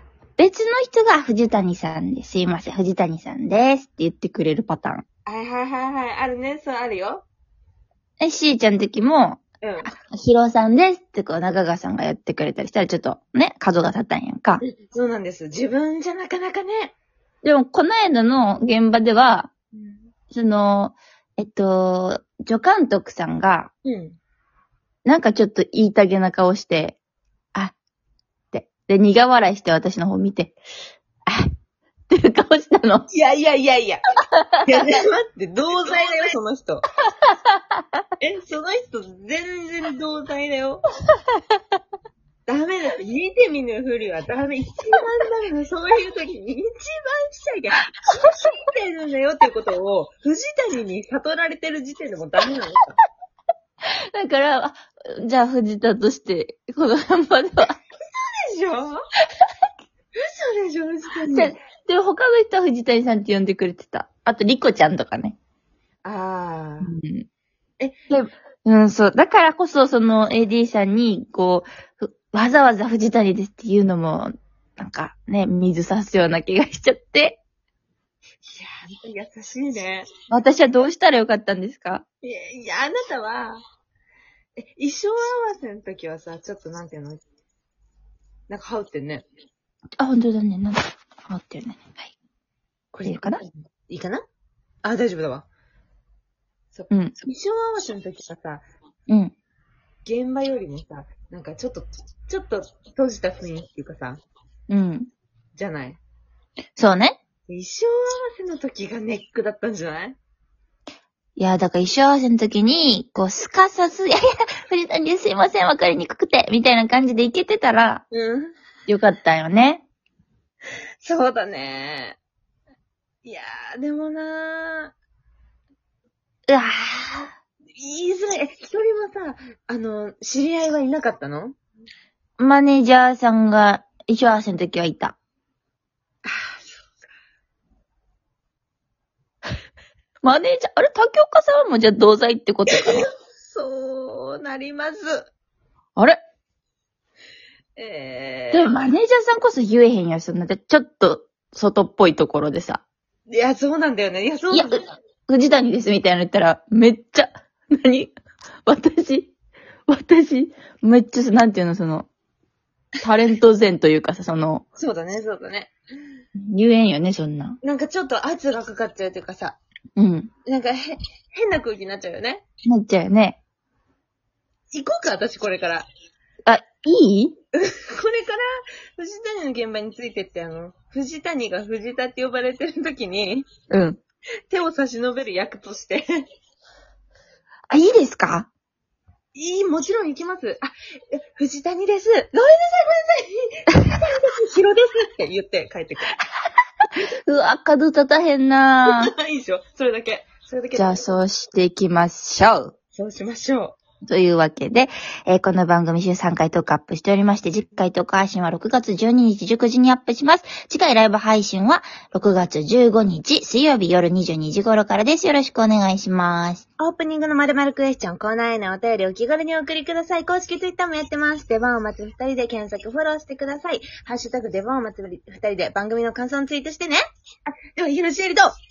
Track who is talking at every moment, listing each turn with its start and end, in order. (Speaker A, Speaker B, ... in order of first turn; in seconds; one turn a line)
Speaker A: 0.4-5.0
Speaker B: 5.3-7.2
Speaker A: 8.2-14.6
Speaker B: 9.6-9.9
Speaker B: 14.6-16.9
Speaker A: 17.4-19.5
Speaker B: 19.7-20.1
Speaker A: 20.3-23.7
Speaker B: 23.9-24.2
Speaker A: 25.1-27.0
Speaker A: 28.5-30.6
Speaker A: 32.1-33.1
Speaker B: 33.1-36.9
Speaker A: 34.3-34.8
Speaker B: 38.2-40.9
Speaker B: 42.5-53.0
Speaker A: 53.9-57.8
Speaker B: 58.1-59.0
Speaker B: 60.2-61.6
Speaker A: 61.3-65.4
Speaker B: 66.0-66.9
Speaker A: 66.8-67.3
Speaker A: 68.1-77.4
Speaker B: 78.4-80.1
Speaker A: 80.3-82.0
Speaker B: 82.2-83.6
Speaker B: 84.6-87.2
Speaker B: 88.5-89.2
Speaker A: 90.0-92.1
Speaker B: 92.9-94.2
Speaker A: 93.0-93.4
Speaker B: 94.8-95.5
Speaker B: 96.7-98.6
Speaker A: 96.9-97.2
Speaker A: 99.1-99.3
Speaker B: 100.0-104.2
Speaker A: 104.7-105.1
Speaker B: 105.6-106.0
Speaker A: 106.8-107.2
Speaker B: 107.5-110.2
Speaker A: 111.4-118.0
Speaker B: 118.1-118.5
Speaker A: 118.9-119.8
Speaker B: 121.0-122.2
Speaker B: 123.2-124.9
Speaker A: 126.5-127.3
Speaker B: 127.8-131.6
Speaker A: 132.4-135.2
Speaker B: 136.2-136.8
Speaker A: 140.2-143.1
Speaker B: 142.8-145.3
Speaker B: 147.8-148.7
Speaker A: 148.5-152.8
Speaker B: 153.3-154.9
Speaker A: 154.5-158.1
Speaker A: 158.7-159.3
Speaker A: 159.9-162.1
Speaker A: 163.0-164.7
Speaker B: 164.8-165.7
Speaker A: 166.4-167.6
Speaker B: 167.6-169.6
Speaker A: 170.0-170.3
Speaker B: 170.5-172.4
Speaker A: 172.7-173.4
Speaker B: 174.7-175.9
Speaker A: 176.5-177.3
Speaker B: 177.5-178.5
Speaker B: 179.0-183.5
Speaker A: 183.7-184.0
Speaker B: 184.5-186.1
Speaker A: 187.7-188.5
Speaker B: 189.3-196.2
Speaker A: 197.2-199.1
Speaker B: 198.9-201.0
Speaker A: 200.7-202.7
Speaker B: 202.9-203.8
Speaker A: 204.0-216.6
Speaker B: 216.8-227.0
Speaker B: 227.8-228.5